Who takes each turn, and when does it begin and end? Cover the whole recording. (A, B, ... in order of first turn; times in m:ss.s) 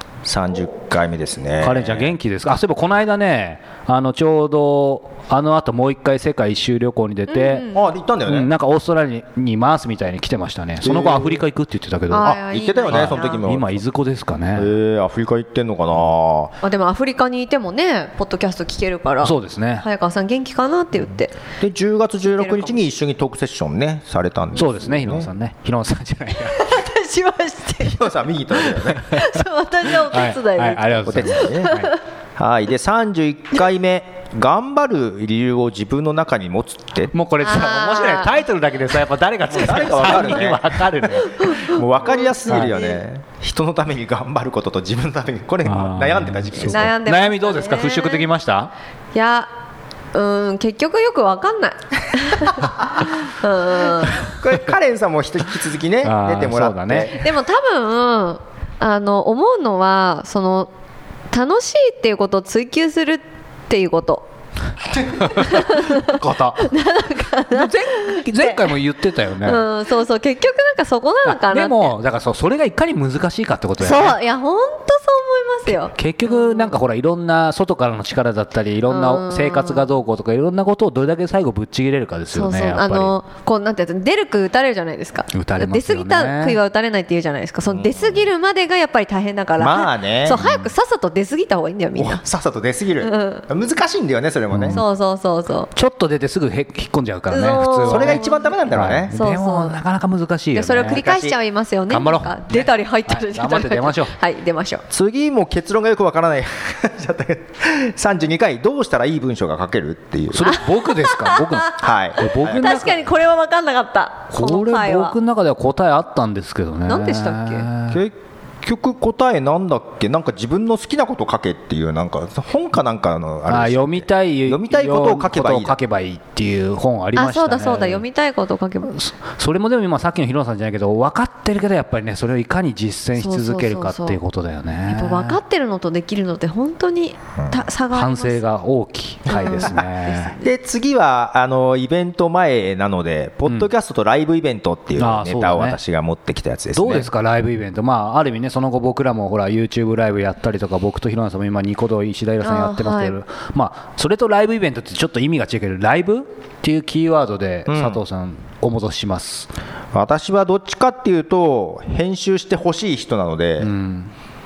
0:00.2-0:02.1 A
0:01.6-0:07.6 B
0:07.3-0:07.8 C
0:07.7-0:08.5 A
0:08.2-0:12.4 B
0:10.8-0:11.4 A
0:12.1-0:13.4 C
0:12.2-0:13.8 A
0:12.9-0:14.7 B
0:14.5-0:16.6 A
0:16.6-0:21.3 C
0:19.2-0:19.8 B
0:21.6-0:25.3 A
0:22.2-0:22.8 C
0:24.5-0:26.6 B
0:26.5-0:31.9 C
0:27.8-0:29.2 A
0:30.0-0:31.9 B
0:31.0-0:31.8 A
0:32.4-0:37.1 A
0:37.1-0:41.7 B
0:37.4-0:38.3 C
0:39.5-0:46.9 A
0:41.4-0:43.0 C
0:45.6-0:48.7 B
0:46.5-0:48.3 C
0:49.1-0:49.5 C
0:50.1-0:54.3 C
0:54.1-0:57.2 A
0:56.0-0:57.2 B
0:57.2-1:00.7 C
1:01.3-1:04.2 C
1:05.1-1:06.7 B
1:05.3-1:08.7 C
1:07.5-1:09.6 B
1:09.4-1:11.9 C
1:11.2-1:14.2 B
1:13.8-1:16.8 C
1:15.8-1:23.1 B
1:18.9-1:19.9 C
1:22.3-1:32.2 C
1:25.3-1:26.6 B
1:27.7-1:28.3 A
1:29.6-1:30.5 A
1:30.4-1:30.7 B
1:32.0-1:34.8 A
1:33.0-1:33.4 C
1:34.5-1:34.8 B
1:34.7-1:35.7 C
1:35.7-1:41.0 B
1:37.3-1:38.5 C
1:37.8-1:39.1 A
1:39.1-1:39.8 C
1:40.5-1:44.8 C
1:40.8-1:41.4 A
1:41.9-1:44.1 B
1:44.9-1:50.6 A
1:50.3-1:52.9 B
1:50.4-1:51.7 C
1:51.7-1:53.0 A
1:52.4-1:55.1 C
1:54.3-1:58.0 B
1:56.9-1:57.7 C
1:57.9-2:05.8 A
2:03.5-2:08.0 B
2:07.2-2:08.9 C
2:08.9-2:15.4 B
2:13.2-2:14.2 C
2:14.9-2:18.4 C
2:17.4-2:17.6 A
2:17.9-2:20.3 B
2:19.3-2:20.5 C
2:19.3-2:19.8 A
2:20.4-2:27.1 A
2:25.0-2:25.8 B
2:26.7-2:39.5 B
2:32.4-2:33.2 C
2:37.7-2:38.0 A
2:39.9-2:43.7 A
2:43.6-2:44.1 B